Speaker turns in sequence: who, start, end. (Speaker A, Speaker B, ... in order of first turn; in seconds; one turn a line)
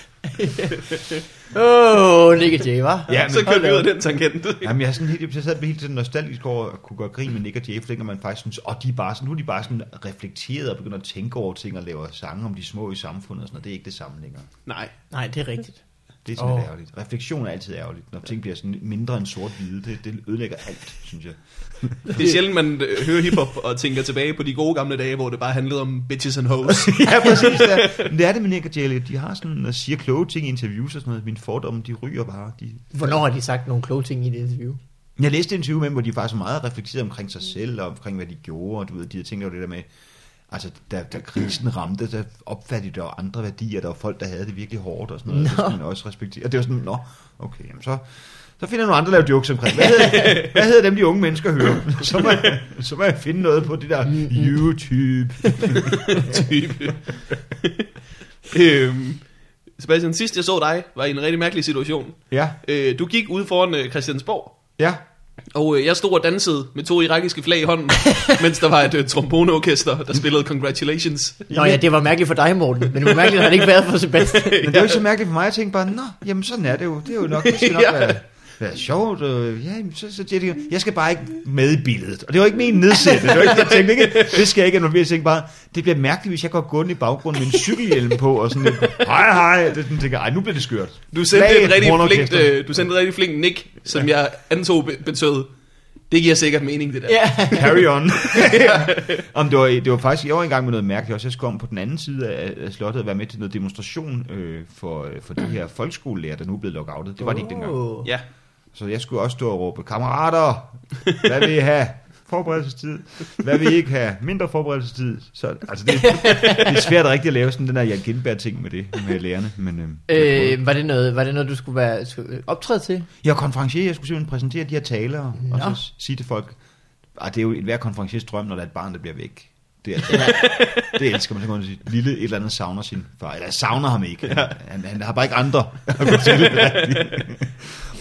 Speaker A: 0.2-3.9
Speaker B: 3.1-3.6
Speaker C: 3.2-4.7
Speaker B: 4.6-14.5
Speaker C: 14.7-14.9
Speaker A: 15.1-15.8
Speaker B: 16.2-22.3
Speaker A: 16.4-16.7
Speaker C: 22.1-28.1
Speaker B: 26.6-32.9
Speaker A: 32.9-34.8
Speaker B: 35.2-39.9
Speaker B: 40.5-56.4
Speaker A: 45.3-45.8
Speaker C: 50.1-50.5
Speaker A: 54.1-54.5
Speaker A: 55.5-55.8
Speaker C: 55.9-57.9
Speaker C: 58.5-59.2
Speaker C: 59.8-64.5
Speaker B: 62.3-62.6
Speaker C: 65.5-71.5
Speaker B: 71.5-71.8
Speaker A: 71.5-74.6
Speaker C: 73.2-73.5
Speaker C: 74.3-75.0
Speaker B: 74.6-92.8
Speaker C: 77.4-78.1
Speaker C: 83.2-84.4
Speaker C: 91.1-95.5
Speaker C: 96.1-97.7
Speaker A: 97.1-97.9
Speaker B: 97.5-107.8
Speaker C: 98.3-99.2
Speaker A: 107.2-108.1
Speaker B: 108.7-120.6
Speaker A: 116.1-116.7
Speaker A: 120.1-123.1
Speaker B: 123.2-126.5
Speaker A: 125.4-125.8
Speaker B: 127.2-137.7
Speaker C: 130.1-131.0
Speaker C: 134.2-134.5
Speaker C: 136.0-137.2